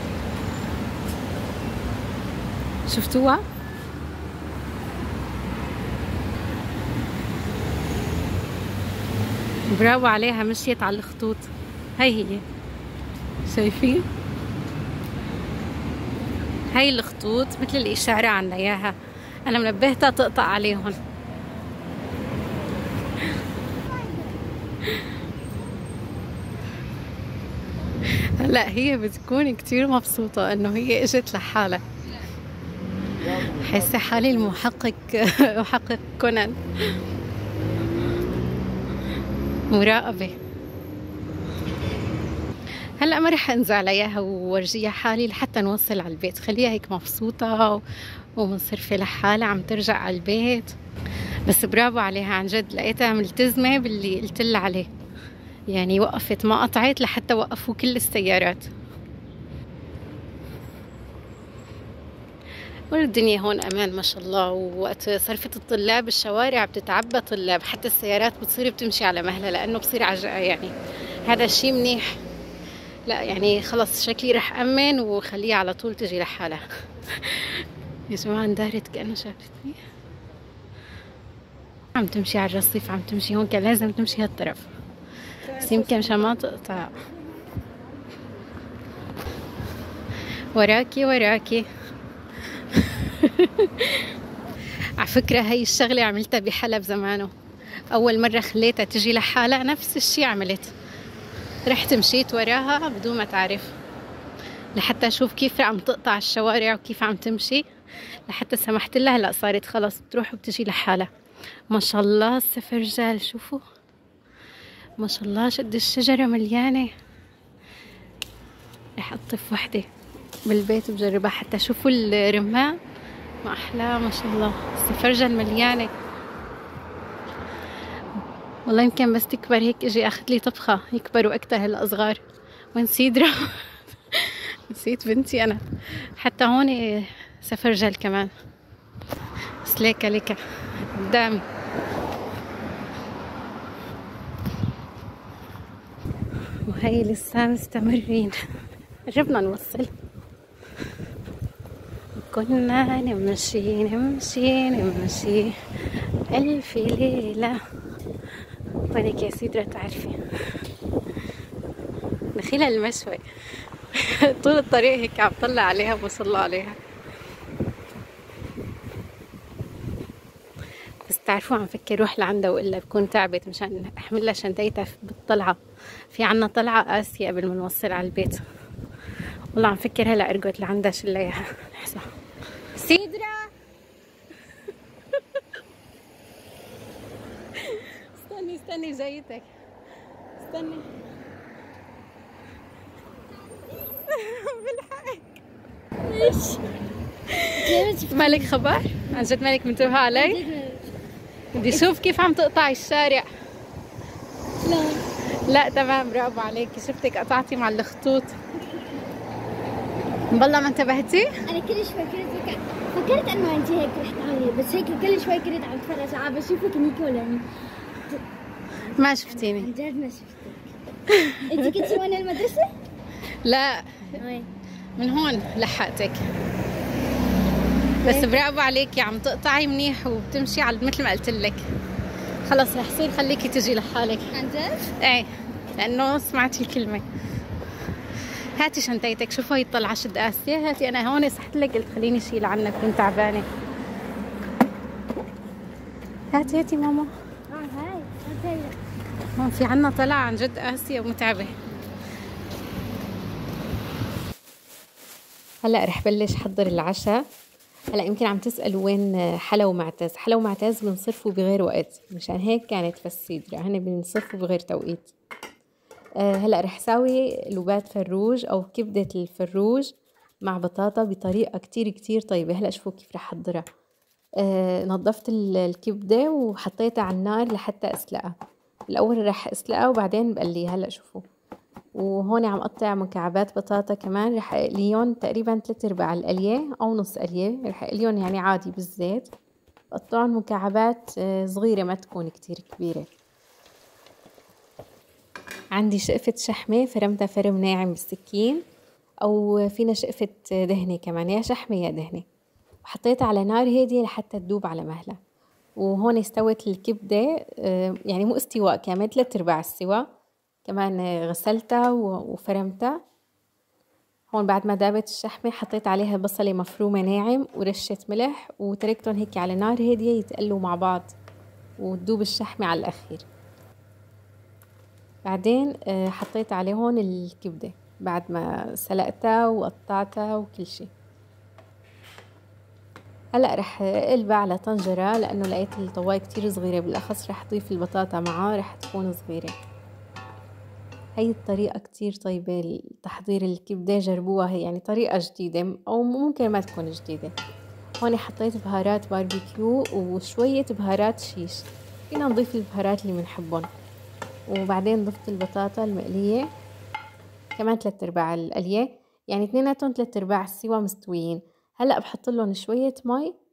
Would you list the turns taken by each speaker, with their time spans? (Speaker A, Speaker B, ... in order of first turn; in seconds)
Speaker A: 2.9-3.4, 9.7-12.4, 13.4-14.1, 16.7-21.0, 28.0-31.8, 33.2-36.6, 39.7-40.4, 43.0-47.8, 48.4-50.8, 51.5-54.9, 55.7-58.7, 62.9-72.2, 73.1-79.8, 82.0-84.7, 85.5-87.0, 90.5-91.7, 92.5-94.1, 95.0-97.3, 97.9-100.8, 101.7-103.8, 104.8-107.7, 108.2-111.1, 111.7-113.6, 115.0-116.9, 119.0-119.9, 120.5-122.8, 123.4-125.9, 128.7-132.2, 132.7-138.3, 139.6-141.5, 146.6-148.4, 149.1-149.9, 152.2-155.6, 156.3-157.6, 158.9-160.2, 162.3-166.8, 171.1-178.4, 179.5-182.1, 182.8-183.5, 187.6-189.5, 190.4-190.9, 193.8-195.4, 197.3-200.4, 201.5-203.3, 205.3-208.4, 210.3-211.4, 218.8-219.7, 221.1-222.0, 223.3-224.2, 225.0-226.3, 228.0-231.7, 232.4-234.3, 234.9-237.1, 238.2-243.5, 246.3-247.1, 249.3-251.6, 255.6-257.2, 257.9-265.1, 266.2-269.9, 270.4-273.6, 274.4-278.3, 278.9-281.2, 281.9-289.3, 289.9-293.1, 295.8-298.6, 299.2-302.2, 302.9-305.2, 305.8-310.1, 310.6-313.0, 314.3-321.1, 321.8-323.2, 325.3-330.9, 333.4-339.6, 341.2-347.3, 348.0-353.7, 354.5-356.5, 357.6-363.3
Speaker B: 196.1-196.7, 197.6-198.6, 200.1-200.9, 204.6-205.1, 211.5-217.5, 218.9-220.7, 221.3-222.8, 224.2-224.5, 228.0-228.3, 234.3-234.9, 247.5-248.8